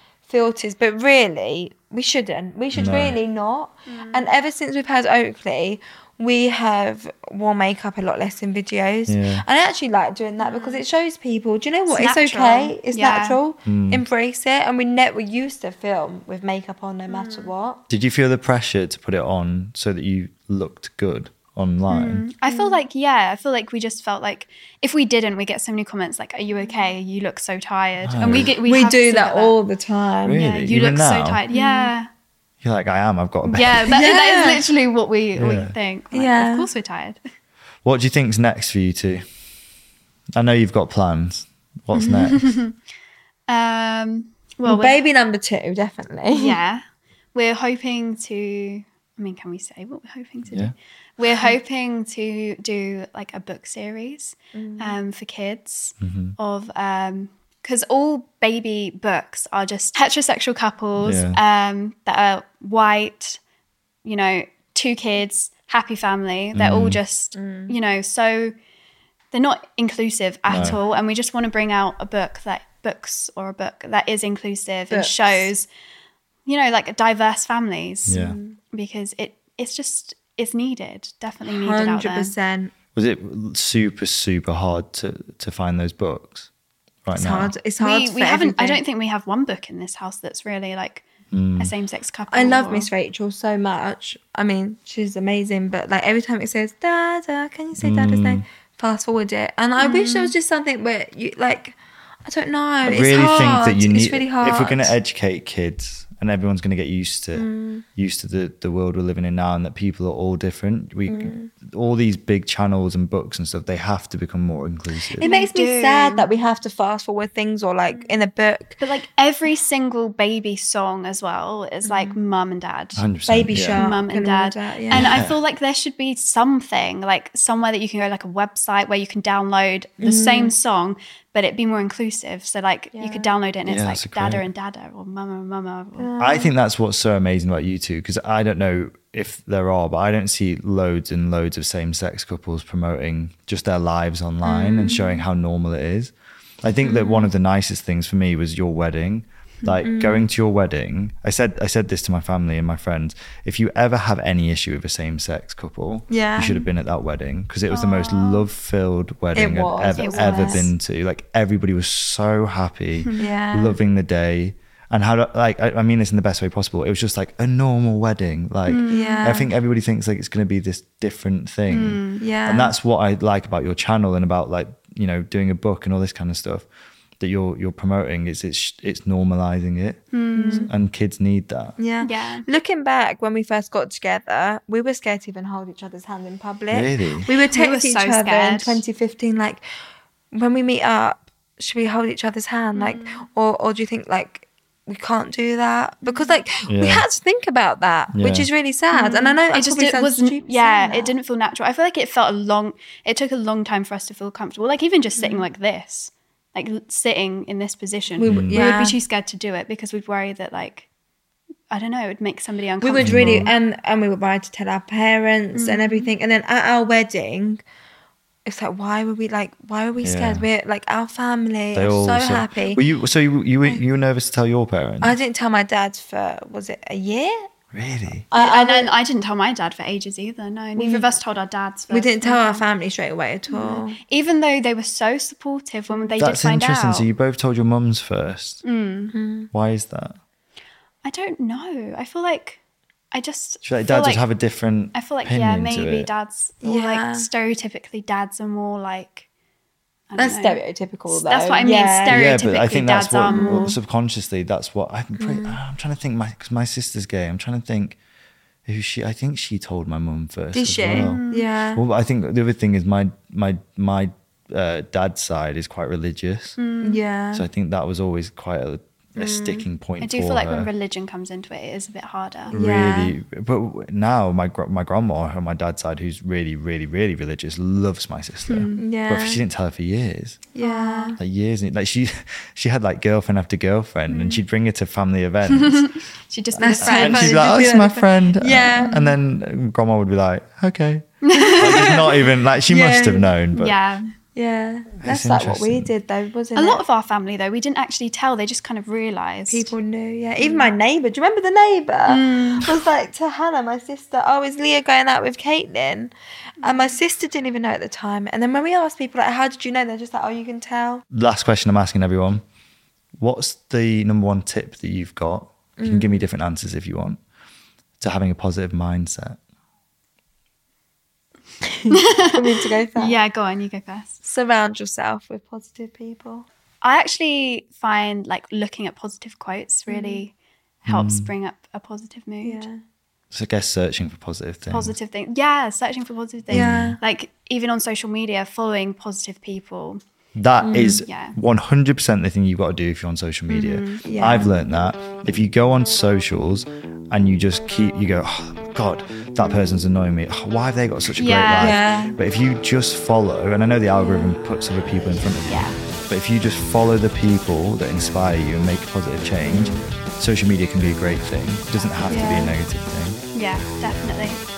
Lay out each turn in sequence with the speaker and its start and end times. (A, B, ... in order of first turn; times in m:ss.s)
0:00.3-0:17.8 A
0:02.7-0:03.2 B
0:03.9-0:04.3 C
0:09.1-0:09.4 B
0:10.4-0:10.8 C
0:11.9-0:13.4 C
0:13.6-0:14.0 B
0:17.1-0:17.5 C
0:17.9-0:22.2 B
0:21.9-0:29.6 C
0:22.5-0:22.8 A
0:28.0-0:28.5 B
0:28.3-0:30.4 A
0:30.2-0:31.4 B
0:30.4-0:32.1 C
0:31.5-0:31.9 A
0:32.6-0:34.0 B
0:33.4-0:37.2 C
0:33.9-0:34.6 A
0:35.4-0:35.7 B
0:36.1-0:36.7 A
0:37.8-0:39.2 B
0:40.3-0:42.5 B
0:41.9-0:42.7 C
0:43.5-0:45.0 C
0:44.6-0:46.6 A
0:46.3-0:46.8 C
0:47.3-1:03.4 C
0:54.5-0:55.0 A
0:56.0-0:56.4 B
1:01.0-1:01.4 B
1:04.0-1:08.5 C
1:06.5-1:07.0 B
1:07.3-1:07.8 A
1:09.3-1:15.7 C
1:10.5-1:10.8 B
1:14.9-1:15.5 A
1:16.4-1:18.2 C
1:18.1-1:18.4 B
1:18.1-1:18.6 A
1:18.7-1:22.3 C
1:21.4-1:22.7 A
1:22.9-1:26.5 B
1:27.0-1:27.5 B
1:27.1-1:28.8 A
1:27.8-1:31.0 C
1:31.3-1:31.7 B
1:31.6-1:32.9 C
1:32.3-1:45.0 A
1:37.8-1:38.4 B
1:39.8-1:40.3 C
1:42.8-1:55.2 B
1:47.3-1:47.8 A
1:51.1-1:51.5 A
1:55.1-1:58.8 A
1:55.2-1:56.3 C
1:58.8-2:03.0 C
2:01.8-2:02.2 A
2:03.0-2:03.8 B
2:03.3-2:05.2 A
2:03.5-2:16.1 C
2:04.9-2:05.4 B
2:10.0-2:10.5 A
2:12.9-2:13.3 A
2:13.6-2:14.5 B
2:16.0-2:16.5 A
2:16.2-2:26.1 B
2:24.4-2:25.1 C
2:26.6-2:56.6 B
2:26.8-2:27.3 C
2:29.8-2:30.3 A
2:36.1-2:36.7 A
2:37.7-2:38.5 C
2:39.3-2:40.7 A
2:40.0-2:40.7 C
2:43.2-2:43.8 A
2:48.6-2:49.5 C
2:48.9-2:49.5 A
2:51.7-2:52.2 C
2:52.2-2:52.7 A
2:57.2-3:00.0 B
3:00.1-3:00.7 C
3:00.3-3:00.7 A
3:00.7-3:01.8 B
3:01.8-3:09.6 A
3:02.0-3:02.4 C
3:06.7-3:07.4 B
3:07.5-3:08.8 C
3:10.3-3:21.1 A
3:12.8-3:13.2 C
3:16.7-3:17.0 B
3:18.1-3:18.5 B
3:18.9-3:30.9 C
3:25.2-3:25.5 A
3:28.2-3:29.0 A
3:28.2-3:28.6 B
3:31.7-3:33.5 C
3:32.8-3:37.6 A
3:33.0-3:33.5 B
3:35.5-3:36.1 C
3:38.4-3:42.8 A
3:40.0-3:40.4 B
3:41.7-3:45.1 B
3:45.0-3:47.4 A
3:47.7-3:48.2 B
3:48.3-3:48.9 A
3:48.3-3:52.6 C
3:50.8-3:51.1 A
3:51.9-3:54.0 A
3:53.5-3:57.1 C
3:56.2-3:58.6 B
3:58.6-3:59.1 C
3:59.1-3:59.5 A
3:59.5-4:00.1 B
4:01.0-4:02.6 C
4:03.1-4:04.2 C
4:03.6-4:06.1 B
4:04.9-4:09.2 C
4:06.6-4:07.3 A
4:10.1-4:13.8 C
4:10.2-4:12.2 A
4:12.1-4:18.0 B
4:13.3-4:13.8 A
4:15.2-4:15.6 A
4:18.6-4:21.2 B
4:20.5-4:21.8 A
4:20.9-4:21.5 C
4:21.7-4:26.6 B
4:26.6-4:27.0 C
4:26.8-4:27.4 A
4:27.3-4:30.7 B
4:29.2-4:32.5 C
4:32.5-4:33.1 A
4:32.5-4:40.5 B
4:38.5-4:38.8 C
4:38.8-4:39.4 A
4:40.5-4:41.2 A
4:40.6-4:41.2 C
4:41.2-4:45.9 B
4:44.1-4:44.4 C
4:45.5-4:47.4 C
4:46.6-4:53.7 B
4:46.6-4:49.0 A
4:48.8-4:49.2 C
4:51.2-4:52.2 C
4:51.6-4:52.0 A
4:52.7-4:53.3 A
4:53.5-4:54.1 C
4:54.3-4:56.8 A
4:55.0-4:55.9 B
4:56.5-4:59.7 C
4:59.5-5:11.0 A
5:00.4-5:00.7 C
5:02.1-5:02.8 C
5:06.6-5:07.0 C
5:11.1-5:12.4 B
5:13.2-5:17.2 B
5:15.8-5:16.2 A
5:18.0-5:19.4 B
5:21.6-5:23.2 A
5:21.9-5:24.2 C
5:24.2-5:26.5 A
5:26.8-5:30.3 C
5:29.9-5:30.2 A
5:30.8-5:32.6 C
5:30.9-5:31.3 B
5:32.4-5:32.8 A
5:33.3-5:34.9 B
5:34.7-5:40.0 C
5:36.5-5:37.0 B
5:36.5-5:37.0 A
5:40.4-6:03.2 B
5:40.6-5:41.0 A
5:41.0-5:41.3 C
5:43.5-5:44.0 C
5:44.0-5:44.5 A
5:51.2-5:51.8 C
5:51.6-5:52.1 A
5:54.0-5:54.3 A
5:55.4-5:55.8 C
5:59.4-5:59.8 A
6:02.1-6:02.6 A
6:03.3-6:04.4 C